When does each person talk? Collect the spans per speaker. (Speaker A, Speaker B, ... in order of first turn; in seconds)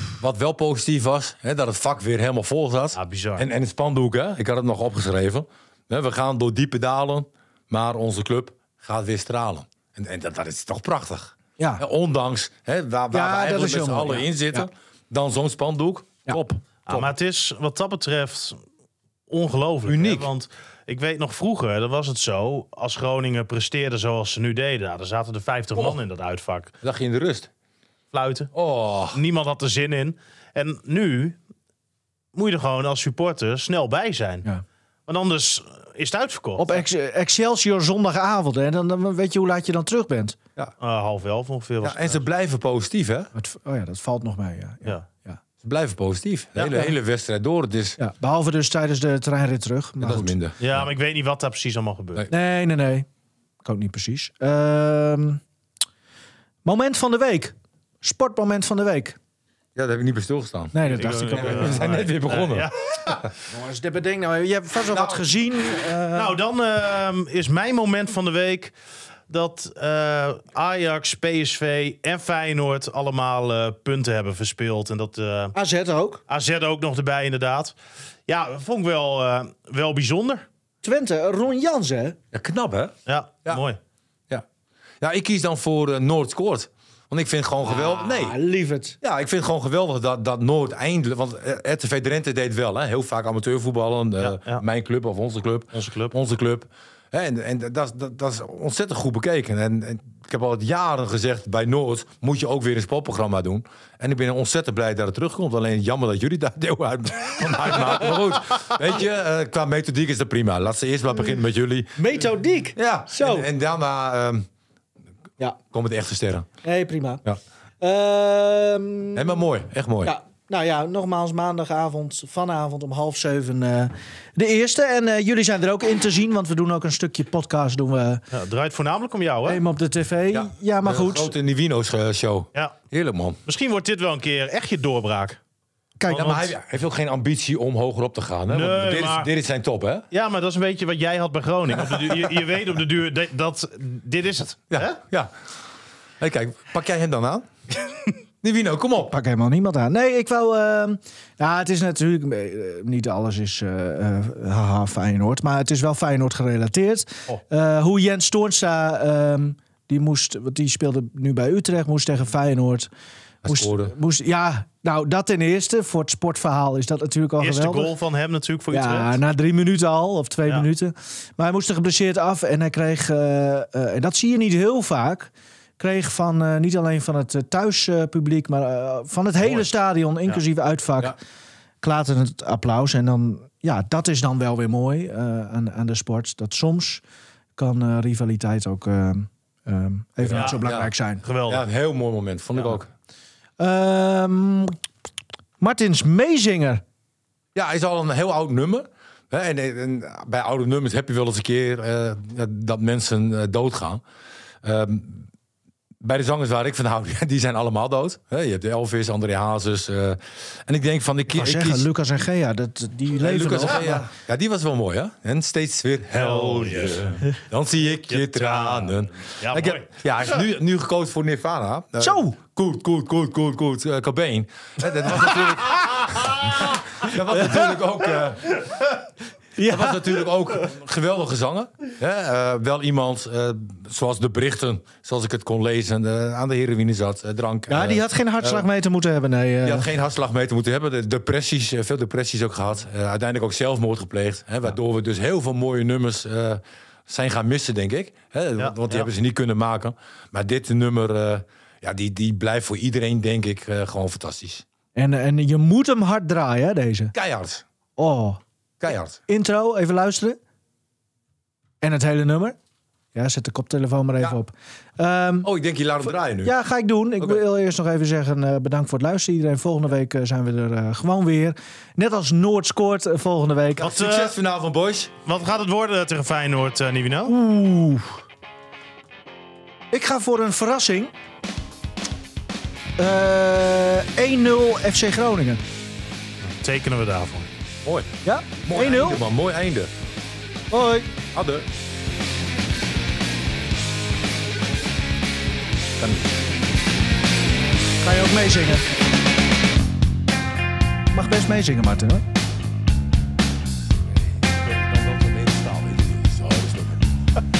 Speaker A: 0.2-17.1, 19.9-20.3, 26.8-27.5, 28.5-29.2, 41.8-43.3, 45.6-48.0, 50.0-50.9, 59.8-62.7, 64.9-65.2, 82.3-82.9, 85.0-88.4, 89.0-112.0, 112.8-114.5, 115.7-116.5, 119.1-120.2, 130.3-133.4, 136.1-140.1, 144.7-145.3, 146.2-147.5, 148.4-149.1, 163.4-163.9, 190.2-190.9, 191.5-192.9, 197.6-204.0, 204.6-205.3, 206.0-211.9, 213.2-228.5, 229.7-238.7, 239.6-254.7, 257.1-257.6, 258.8-259.2, 265.4-266.5, 273.8-275.1, 287.8-288.1, 288.6-289.9, 291.3-291.7, 296.0-296.3, 304.1-307.1
Speaker B: 2.9-3.5, 16.9-18.6, 19.3-26.7, 28.1-28.5, 29.1-31.4, 32.3-34.5, 35.1-36.9, 40.8-42.2, 50.6-52.3, 60.9-63.3, 66.2-68.7, 69.3-75.5, 76.3-77.8, 78.3-80.5, 83.1-83.8, 94.2-94.6, 95.7-96.1, 128.3-129.6, 133.5-135.4, 138.5-139.3, 140.1-145.0, 167.4-169.2, 190.3-190.7, 191.2-191.6, 216.1-217.3, 218.1-219.9, 248.6-249.1, 273.8-274.3, 275.3-277.4, 286.4-287.5
Speaker C: 11.6-11.8, 13.1-14.7, 36.6-40.4, 43.3-45.4, 48.0-50.3, 52.3-53.1, 53.6-55.4, 56.6-59.2, 60.7-61.8, 63.5-66.4, 75.5-76.2, 80.8-82.2, 87.6-89.0, 112.0-113.5, 116.6-117.2, 117.8-119.5, 120.0-128.2, 129.5-131.3, 136.0-136.5, 149.1-162.9, 163.4-167.9, 168.7-181.2, 181.8-187.0, 187.6-191.2, 193.6-194.8, 195.6-196.8, 211.3-214.1, 222.0-222.4, 225.1-225.5, 227.0-228.3, 229.6-230.3, 237.7-239.9, 255.0-257.1, 258.0-258.4, 259.3-260.4, 261.8-262.6, 263.1-265.5, 266.3-273.9, 277.3-278.2, 279.9-281.1, 283.0-285.6, 288.2-289.2, 290.7-291.1, 298.0-298.9, 301.1-302.2